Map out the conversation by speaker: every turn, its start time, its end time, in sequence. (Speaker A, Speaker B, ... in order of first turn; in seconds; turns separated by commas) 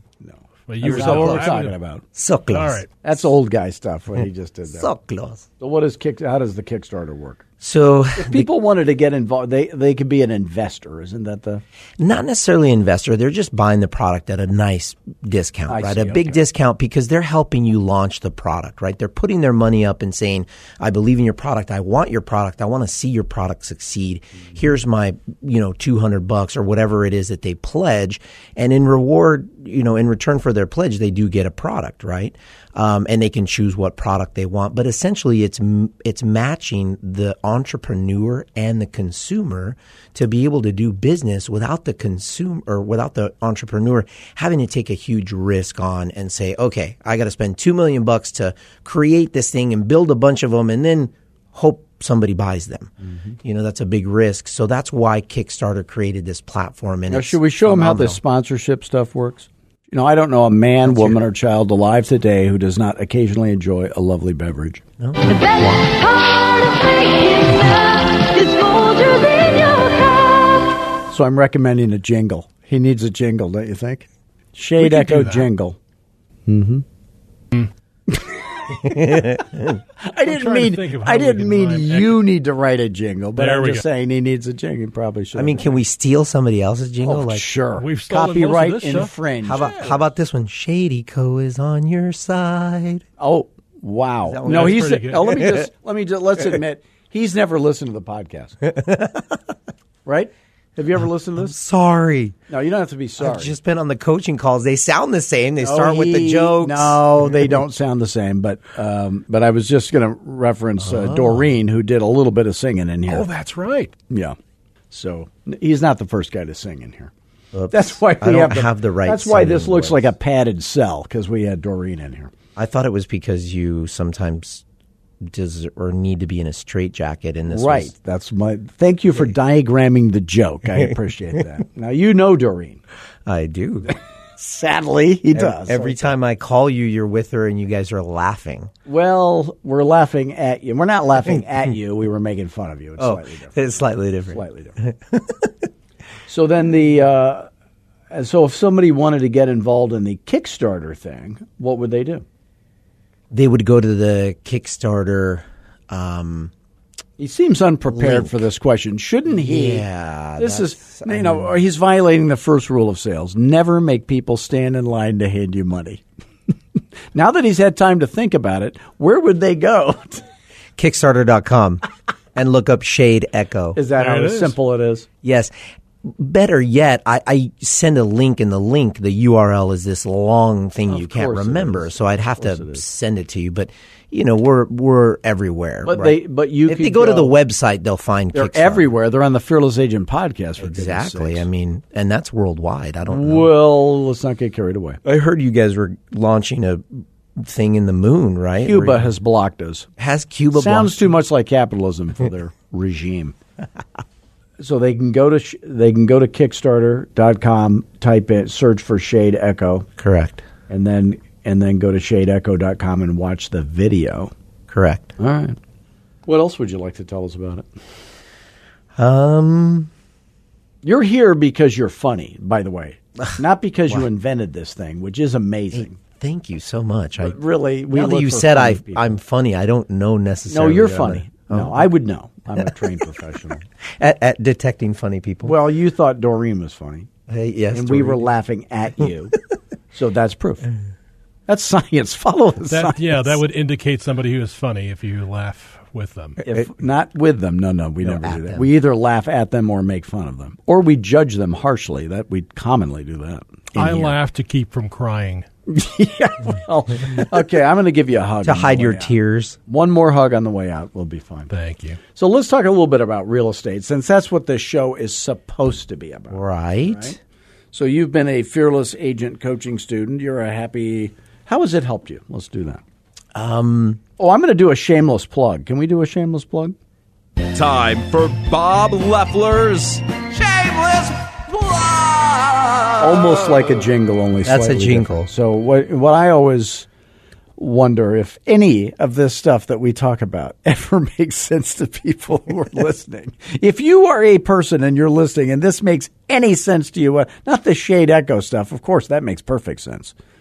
Speaker A: 0.2-2.0, Speaker B: 0.7-1.8, Speaker C: 0.8-1.5, Speaker C: 2.1-2.8, Speaker B: 2.5-2.9, Speaker A: 3.0-4.9, Speaker C: 4.7-5.5, Speaker A: 5.6-7.4, Speaker C: 7.6-8.5, Speaker A: 8.2-11.6, Speaker C: 12.0-58.2, Speaker A: 15.7-16.4, Speaker A: 57.1-64.8, Speaker C: 65.0-65.9, Speaker D: 65.2-70.7, Speaker A: 71.1-75.8, Speaker B: 74.8-75.5, Speaker A: 76.5-76.8, Speaker A: 78.1-79.4, Speaker C: 78.8-79.8, Speaker A: 80.0-85.8, Speaker B: 80.2-82.2, Speaker B: 83.4-83.8, Speaker C: 85.3-87.5, Speaker A: 87.0-89.9, Speaker B: 87.8-89.9, Speaker C: 89.4-93.0, Speaker A: 93.2-98.6, Speaker C: 94.3-95.3, Speaker B: 94.5-95.5, Speaker C: 98.6-99.4, Speaker A: 100.0-101.6, Speaker C: 101.4-102.4, Speaker A: 102.5-103.5, Speaker C: 103.2-107.0, Speaker A: 105.6-113.3, Speaker C: 110.8-111.5, Speaker B: 113.1-113.9, Speaker A: 114.1-114.4, Speaker A: 114.9-117.1, Speaker C: 117.5-120.1, Speaker A: 117.7-122.3, Speaker C: 122.6-124.6, Speaker C: 125.2-127.9, Speaker A: 127.5-132.8, Speaker C: 133.3-133.9, Speaker A: 133.9-136.1, Speaker C: 135.3-138.7, Speaker A: 138.9-143.7, Speaker C: 143.0-145.7, Speaker A: 144.3-144.8, Speaker A: 146.3-147.5, Speaker A: 148.1-152.2, Speaker C: 153.3-156.5, Speaker A: 157.2-159.9, Speaker C: 157.9-158.4, Speaker C: 159.3-161.5, Speaker A: 160.4-166.0, Speaker A: 167.1-170.2, Speaker C: 170.8-171.8, Speaker C: 172.3-173.8, Speaker A: 173.8-175.1, Speaker B: 174.0-174.6, Speaker C: 175.2-175.5, Speaker C: 176.0-188.9, Speaker A: 180.9-182.8, Speaker A: 185.8-187.4, Speaker A: 188.3-191.5, Speaker C: 190.6-193.5, Speaker A: 193.1-195.0, Speaker C: 195.0-199.1, Speaker A: 198.6-199.9, Speaker C: 200.0-201.2, Speaker A: 200.5-203.4, Speaker A: 204.6-209.9, Speaker C: 210.0-210.5, Speaker A: 210.7-214.3, Speaker C: 214.7-215.1, Speaker A: 215.2-215.6, Speaker A: 216.3-217.7, Speaker C: 219.0-219.9, Speaker A: 220.8-226.0, Speaker C: 225.7-231.8, Speaker A: 227.2-229.2, Speaker A: 230.5-233.6, Speaker C: 234.0-235.6, Speaker A: 235.4-237.1, Speaker C: 237.3-238.3, Speaker A: 237.7-239.4, Speaker A: 239.9-240.7, Speaker A: 241.5-243.4, Speaker B: 242.7-246.4, Speaker A: 246.4-254.1, Speaker C: 248.0-248.7, Speaker B: 253.8-255.5, Speaker A: 255.7-259.2, Speaker C: 258.4-259.6, Speaker A: 259.7-261.5, Speaker B: 261.5-262.0, Speaker A: 262.1-267.2, Speaker C: 266.3-267.2, Speaker A: 267.7-272.8, Speaker C: 273.4-274.0, Speaker A: 274.2-276.8, Speaker E: 277.4-283.0, Speaker A: 283.0-286.9, Speaker C: 284.4-285.3, Speaker A: 287.6-300.1